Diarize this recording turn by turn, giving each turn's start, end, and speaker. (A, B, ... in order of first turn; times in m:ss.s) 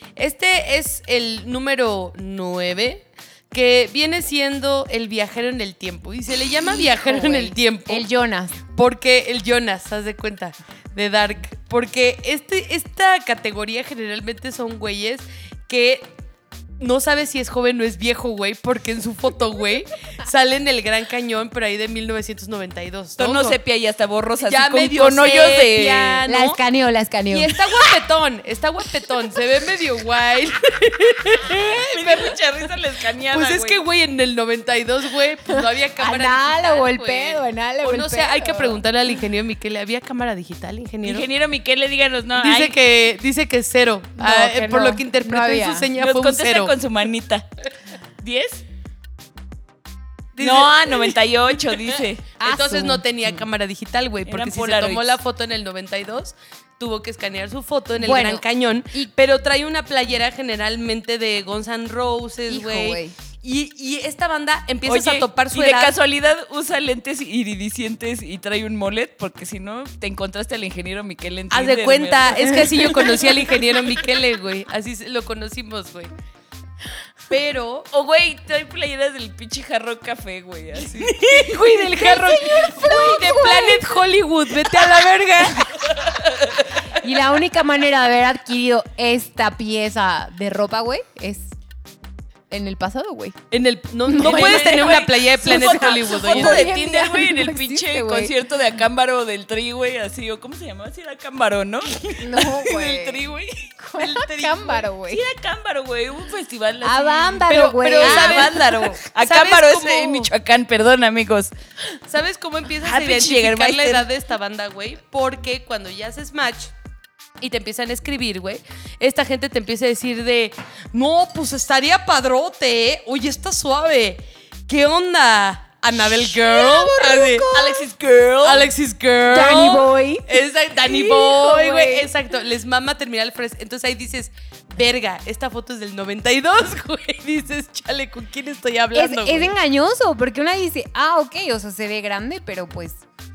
0:00.2-0:08.1 A
0:06.6-0:08.6 B
0:08.7-0:16.2 A
0:16.8-0:23.6 A
0:23.2-0:26.2 C
0:24.4-0:26.6 A
0:26.3-0:28.0 B
0:27.3-0:32.4 A
0:31.9-0:33.8 C
0:33.3-0:41.3 A
0:35.5-0:38.8 B
0:41.0-0:42.8 C
0:42.4-0:46.8 A
0:44.2-0:45.9 B
0:46.0-0:47.5 C
0:48.2-0:48.6 C
0:50.4-0:51.1 A
0:50.4-0:52.2 C
0:52.4-0:53.0 B
0:52.4-1:06.0 A
0:54.3-0:55.2 C
0:58.0-0:58.4 B
1:02.5-1:03.1 B
1:04.9-1:13.5 C
1:11.5-1:16.1 A
1:17.3-1:17.9 A
1:17.9-1:21.6 C
1:20.8-1:25.9 A
1:21.9-1:23.9 B
1:26.2-1:26.7 C
1:26.9-1:31.5 B
1:32.5-1:33.4 B
1:33.5-1:36.7 A
1:34.0-1:35.0 B
1:34.2-1:43.7 C
1:35.6-1:38.3 B
1:42.1-1:43.2 B
1:43.8-1:45.2 B
1:44.0-1:44.8 A
1:45.1-1:51.5 C
1:46.8-1:48.6 B
1:47.5-1:50.3 A
1:52.1-1:56.7 A
1:52.8-1:54.1 C
1:57.4-2:07.5 A
2:06.0-2:07.9 B
2:07.5-2:08.7 C
2:08.4-2:19.5 A
2:09.3-2:12.1 B
2:18.9-2:23.0 B